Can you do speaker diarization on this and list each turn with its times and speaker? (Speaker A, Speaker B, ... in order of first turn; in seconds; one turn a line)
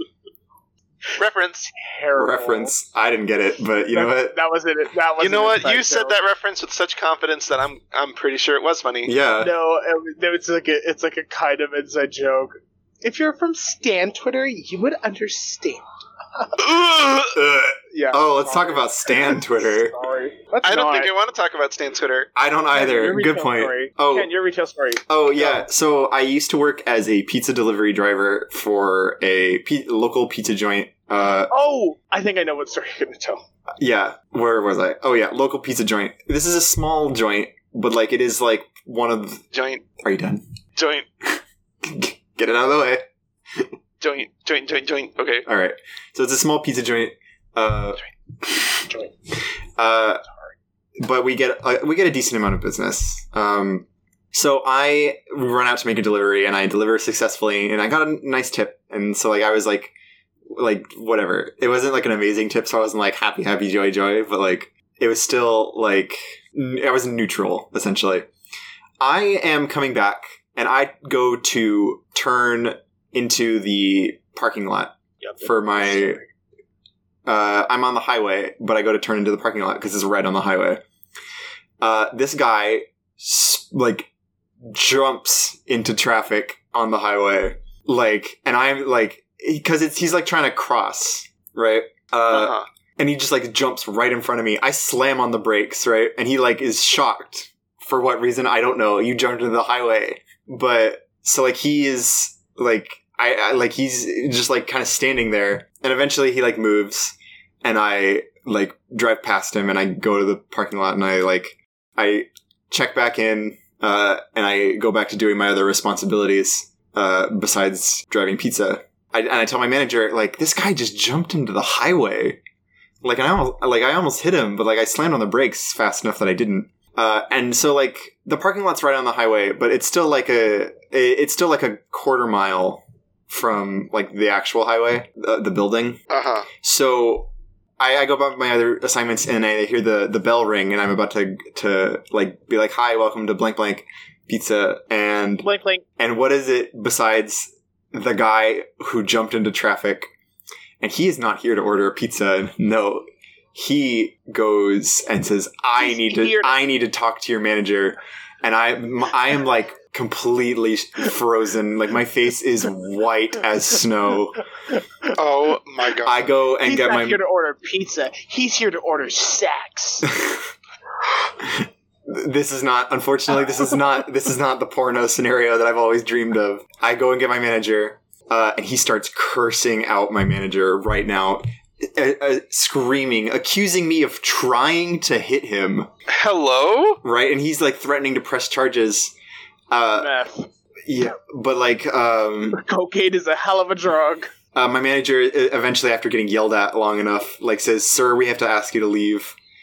Speaker A: 1.2-1.7
Speaker B: 1.7-2.7
Speaker C: 2.2-4.4
Speaker B: 3.9-6.2
Speaker A: 5.2-9.1
Speaker C: 9.1-9.5
Speaker B: 9.4-16.7
Speaker A: 16.6-17.3
Speaker C: 17.3-19.9
Speaker B: 17.9-21.1
Speaker A: 20.6-22.3
Speaker C: 22.4-24.3
Speaker B: 22.7-25.7
Speaker C: 25.1-31.5
Speaker B: 31.5-33.4
Speaker C: 33.8-39.5
Speaker A: 39.5-39.8
Speaker C: 40.0-40.4
Speaker A: 40.8-41.1
Speaker C: 41.8-43.0
Speaker A: 44.0-45.5
Speaker C: 45.5-48.7
Speaker C: 49.8-50.2
Speaker C: 51.0-59.9
Speaker C: 60.5-68.3
Speaker C: 69.0-76.2
Speaker B: 75.2-76.2
Speaker C: 77.3-80.8
Speaker C: 81.8-84.1
Speaker C: 84.6-122.4
Speaker A: 92.3-92.7
Speaker C: 123.0-136.0
Speaker A: 136.1-136.5
Speaker C: 136.6-150.1
Speaker B: 145.4-145.8
Speaker C: 150.8-164.4
Speaker B: 155.8-156.6
Speaker A: 165.2-166.2
Speaker C: 166.0-167.2
Speaker B: 166.6-170.1
Speaker C: 170.1-170.4
Speaker C: 171.4-185.9
Speaker A: 186.1-187.0
Speaker C: 187.0-189.1
Speaker C: 189.7-190.1
Speaker B: 190.0-190.5
Speaker C: 190.9-192.6
Speaker B: 192.5-194.3
Speaker C: 194.5-199.3